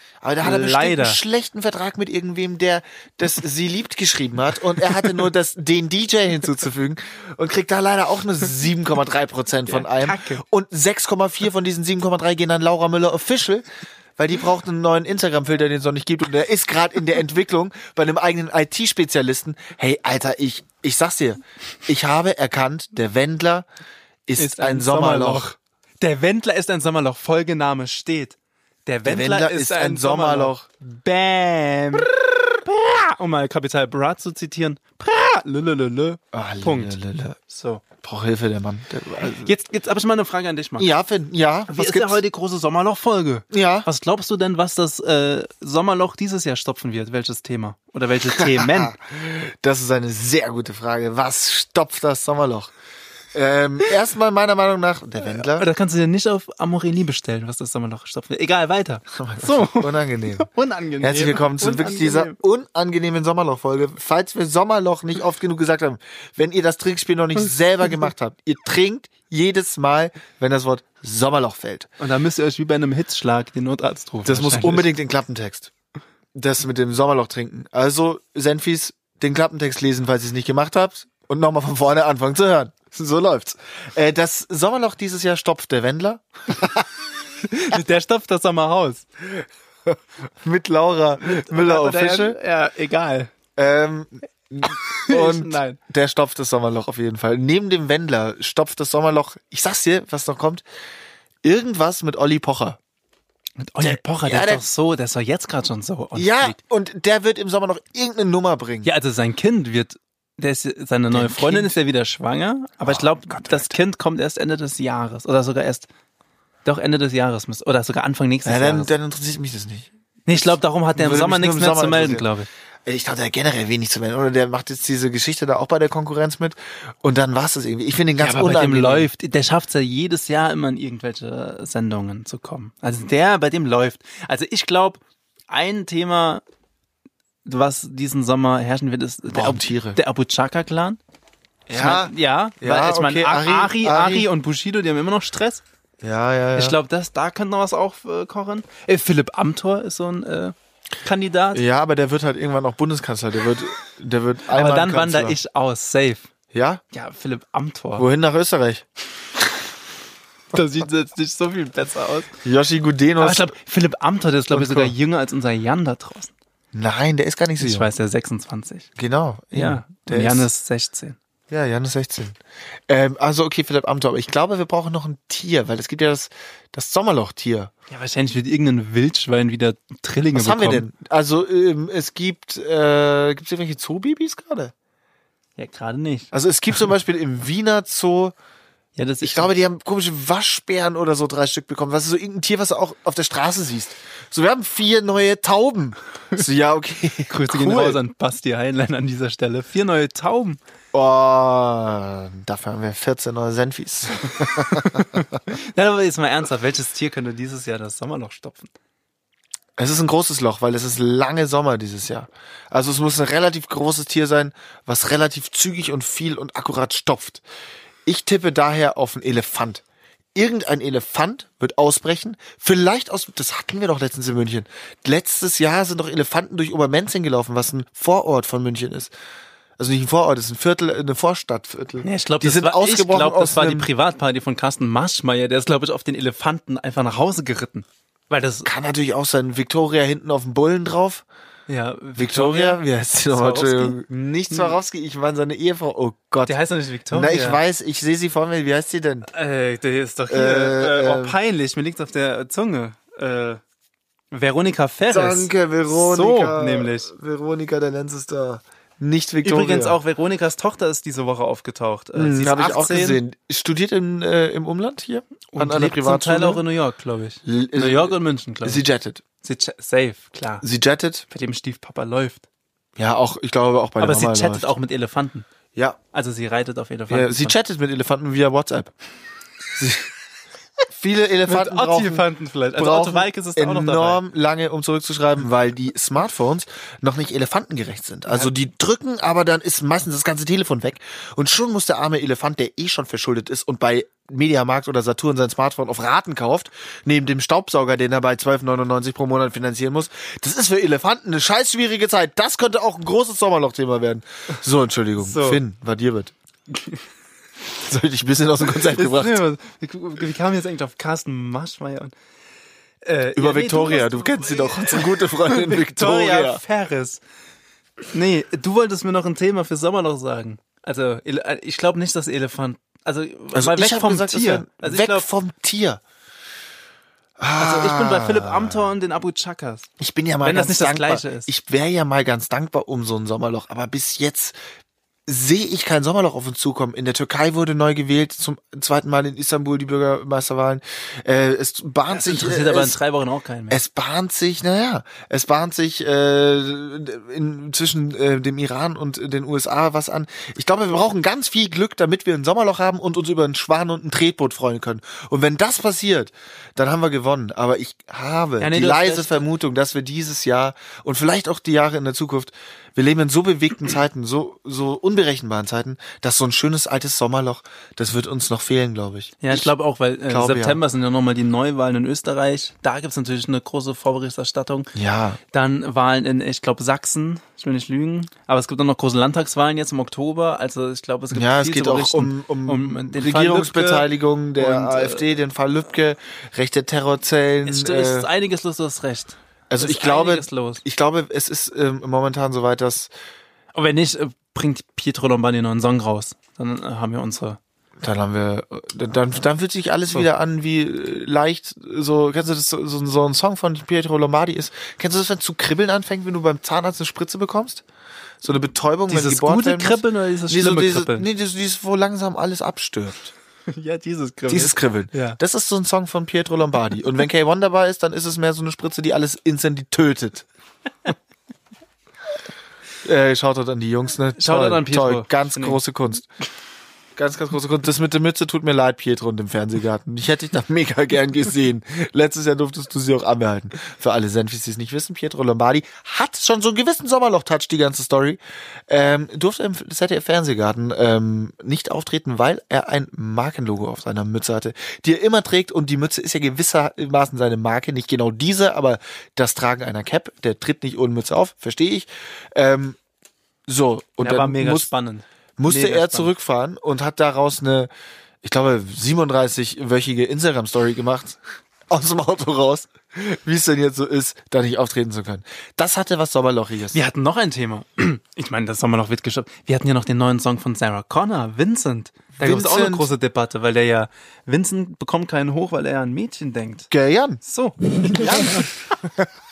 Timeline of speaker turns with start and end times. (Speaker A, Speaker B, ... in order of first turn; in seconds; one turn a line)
Speaker A: 0.2-23.6
Speaker B: 0.4-1.2
Speaker B: 9.7-10.4
Speaker A: 24.3-25.5
Speaker B: 24.4-28.3
Speaker B: 28.9-37.0
Speaker A: 29.0-30.6
Speaker A: 36.3-37.4
Speaker B: 37.5-37.8
Speaker A: 38.0-39.5
Speaker B: 39.4-40.9
Speaker A: 40.8-42.2
Speaker B: 41.7-48.9
Speaker A: 43.5-43.9
Speaker A: 48.4-52.7
Speaker A: 53.3-55.7
Speaker B: 55.2-62.4
Speaker A: 59.1-60.5
Speaker A: 61.0-71.9
Speaker B: 72.0-74.9
Speaker A: 74.2-75.7
Speaker A: 76.3-86.9
Speaker B: 87.4-89.0
Speaker A: 89.3-92.4
Speaker B: 91.2-93.3
Speaker A: 93.6-100.6
Speaker B: 94.7-95.8
Speaker A: 101.4-102.8
Speaker B: 103.6-106.6
Speaker A: 103.8-104.6
Speaker A: 106.2-108.9
Speaker B: 108.8-115.9
Speaker A: 111.1-111.8
Speaker A: 112.8-113.8
Speaker B: 116.6-118.9
Speaker A: 118.4-122.3
Speaker B: 120.3-122.5
Speaker A: 122.8-129.1
Speaker B: 128.2-136.4
Speaker B: 137.4-141.0
Speaker A: 139.3-140.0
Speaker A: 141.7-144.3
Speaker B: 141.7-145.6
Speaker A: 146.0-146.8
Speaker B: 146.6-151.6
Speaker A: 151.5-155.4
Speaker B: 154.5-156.3
Speaker A: 156.5-156.8
Speaker B: 156.9-158.1
Speaker A: 158.0-158.8
Speaker B: 160.5-162.3
Speaker A: 162.4-163.5
Speaker B: 163.2-166.3
Speaker A: 164.5-164.9
Speaker A: 166.7-167.9
Speaker B: 167.6-168.9
Speaker A: 168.9-170.5
Speaker B: 169.5-171.2
Speaker A: 171.5-172.4
Speaker A: 172.9-177.7
Speaker B: 177.9-180.8
Speaker A: 180.3-184.7
Speaker B: 185.6-186.3
Speaker A: 186.3-188.3
Speaker B: 188.9-189.5
Speaker A: 189.2-198.0
Speaker B: 197.3-200.6
Speaker A: 200.9-205.2
Speaker B: 204.6-208.7
Speaker A: 209.8-217.4
Speaker A: 218.1-219.8
Speaker A: 220.3-229.1
Speaker A: 229.8-233.9
Speaker B: 232.0-238.7
Speaker A: 238.6-241.2
Speaker B: 241.7-242.8
Speaker A: 242.2-246.5
Speaker B: 243.3-244.0
Speaker B: 244.5-244.8
Speaker B: 246.5-247.6
Speaker A: 247.1-249.3
Speaker B: 249.3-253.6
Speaker A: 250.3-251.3
Speaker B: 254.3-257.1
Speaker A: 255.1-260.0
Speaker B: 259.4-263.2
Speaker A: 262.1-266.6
Speaker B: 265.5-268.8
Speaker A: 267.4-269.2
Speaker B: 269.4-270.6
Speaker A: 270.6-271.2
Speaker B: 271.3-272.4
Speaker A: 273.0-274.7
Speaker B: 274.0-275.5
Speaker B: 276.1-277.6
Speaker A: 277.1-278.9
Speaker A: 279.7-280.1
Speaker A: 280.9-282.2
Speaker B: 281.5-284.2
Speaker A: 282.8-306.3
Speaker B: 305.2-305.6
Speaker A: 307.7-309.4
Speaker B: 308.6-312.1
Speaker B: 313.0-317.2
Speaker A: 313.4-316.6
Speaker B: 318.1-325.2
Speaker A: 323.5-326.0
Speaker A: 327.4-328.8
Speaker B: 327.6-329.9
Speaker A: 330.0-334.6
Speaker B: 330.4-331.5
Speaker A: 335.3-343.0
Speaker B: 342.1-343.8
Speaker A: 343.7-369.7
Speaker B: 358.6-359.4
Speaker B: 369.4-374.9
Speaker A: 370.3-370.8
Speaker A: 374.9-375.4
Speaker B: 375.5-385.2
Speaker A: 381.3-388.3
Speaker B: 387.6-390.8
Speaker A: 389.7-393.1
Speaker B: 393.7-397.6
Speaker A: 398.0-407.8
Speaker A: 408.4-413.3
Speaker B: 409.1-411.2
Speaker B: 413.7-415.4
Speaker A: 414.5-420.4
Speaker A: 423.0-426.2
Speaker B: 424.4-425.8
Speaker A: 427.1-453.0
Speaker A: 453.7-454.9
Speaker B: 454.2-456.3
Speaker A: 455.6-457.9
Speaker A: 458.4-467.0
Speaker B: 466.9-476.9
Speaker A: 472.4-473.1
Speaker A: 476.9-477.4
Speaker B: 477.4-479.0
Speaker A: 478.1-478.6